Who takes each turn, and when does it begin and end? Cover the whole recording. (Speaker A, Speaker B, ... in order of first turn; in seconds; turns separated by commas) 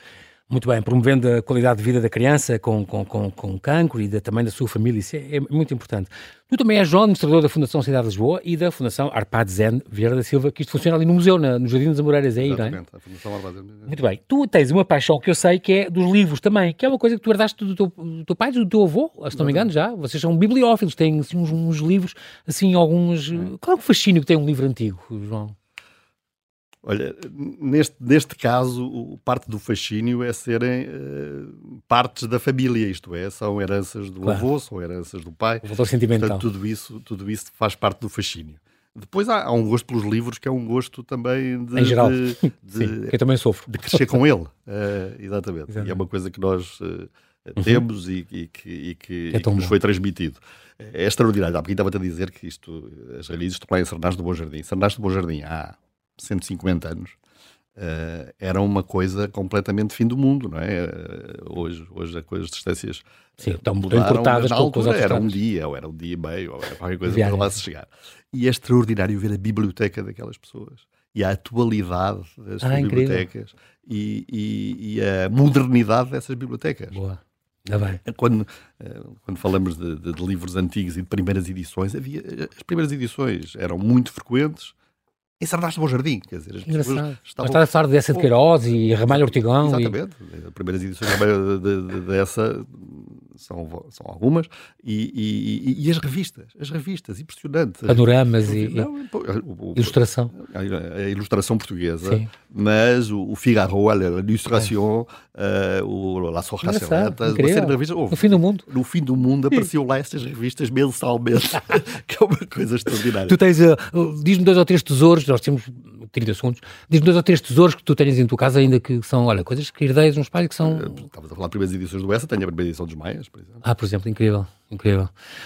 Speaker A: 0.5-12.8, Speaker B: 12.4-14.0, Speaker A: 13.9-25.6, Speaker B: 19.3-19.7, Speaker B: 26.8-43.2, Speaker A: 35.6-36.5, Speaker A: 41.8-44.2, Speaker B: 43.7-57.2, Speaker A: 45.7-46.0, Speaker A: 49.3-49.8, Speaker B: 57.8-77.0, Speaker A: 63.4-65.4, Speaker A: 67.1-67.6, Speaker A: 72.6-73.3, Speaker A: 76.9-78.0, Speaker B: 78.0-84.7, Speaker B: 85.4-88.3, Speaker A: 86.7-90.0, Speaker B: 89.1-113.4, Speaker A: 97.9-98.9, Speaker A: 99.8-100.3, Speaker A: 102.0-102.3, Speaker A: 106.6-108.7, Speaker A: 113.2-121.0, Speaker B: 120.6-123.6, Speaker A: 123.6-125.1